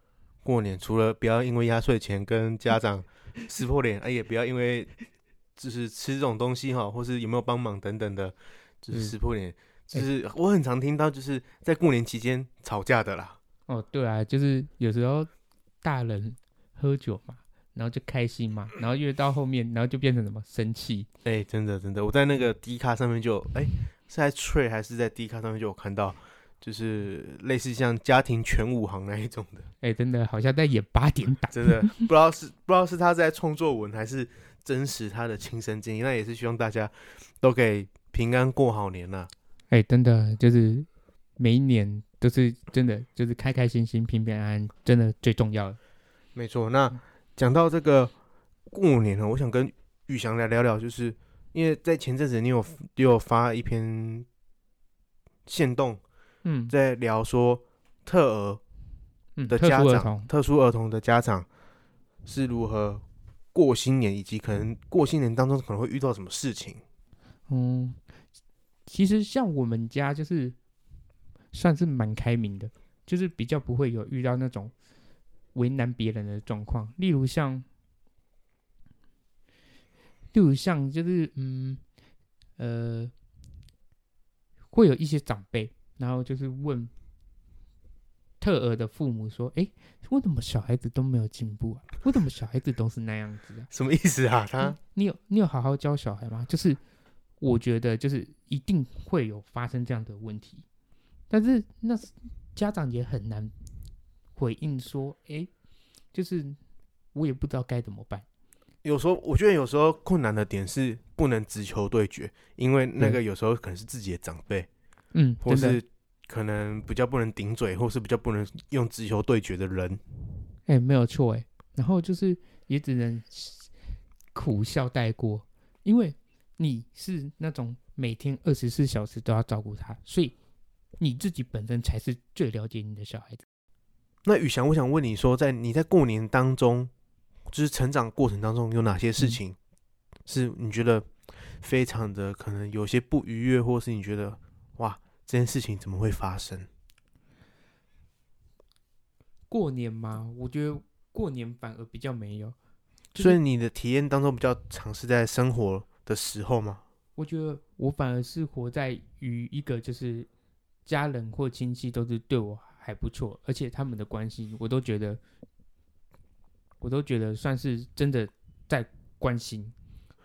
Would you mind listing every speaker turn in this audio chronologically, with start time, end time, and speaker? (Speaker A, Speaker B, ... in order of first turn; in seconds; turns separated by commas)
Speaker A: 0.4-4.9, Speaker A: 5.6-13.4, Speaker B: 13.7-15.3, Speaker B: 15.8-21.1, Speaker A: 21.2-29.7, Speaker B: 29.8-32.1, Speaker A: 31.5-39.3, Speaker B: 39.7-45.8, Speaker A: 46.4-48.1, Speaker A: 48.7-54.3, Speaker A: 55.5-56.0, Speaker B: 56.4-56.7, Speaker A: 56.7-58.6, Speaker B: 59.4-60.3, Speaker A: 59.5-61.5, Speaker A: 62.3-66.8, Speaker B: 67.5-68.0, Speaker B: 68.9-70.6, Speaker B: 71.5-74.7, Speaker B: 75.5-77.7, Speaker B: 80.3-81.8, Speaker B: 82.6-83.1, Speaker B: 84.7-86.9, Speaker B: 88.4-93.7, Speaker A: 93.7-94.8, Speaker B: 94.6-96.8, Speaker B: 97.4-100.7, Speaker B: 101.3-103.5, Speaker B: 104.4-105.5, Speaker B: 106.1-106.6, Speaker B: 107.1-108.2, Speaker A: 108.8-114.7, Speaker B: 115.1-115.8, Speaker A: 115.4-120.0, Speaker B: 120.7-123.7, Speaker B: 124.3-130.3, Speaker B: 131.0-133.4, Speaker A: 134.3-136.9, Speaker A: 137.5-139.6, Speaker A: 140.3-141.1, Speaker A: 141.6-146.7, Speaker B: 149.5-152.6, Speaker B: 153.1-153.4, Speaker A: 153.2-156.8, Speaker B: 157.2-160.3, Speaker B: 160.9-165.2, Speaker B: 166.8-169.8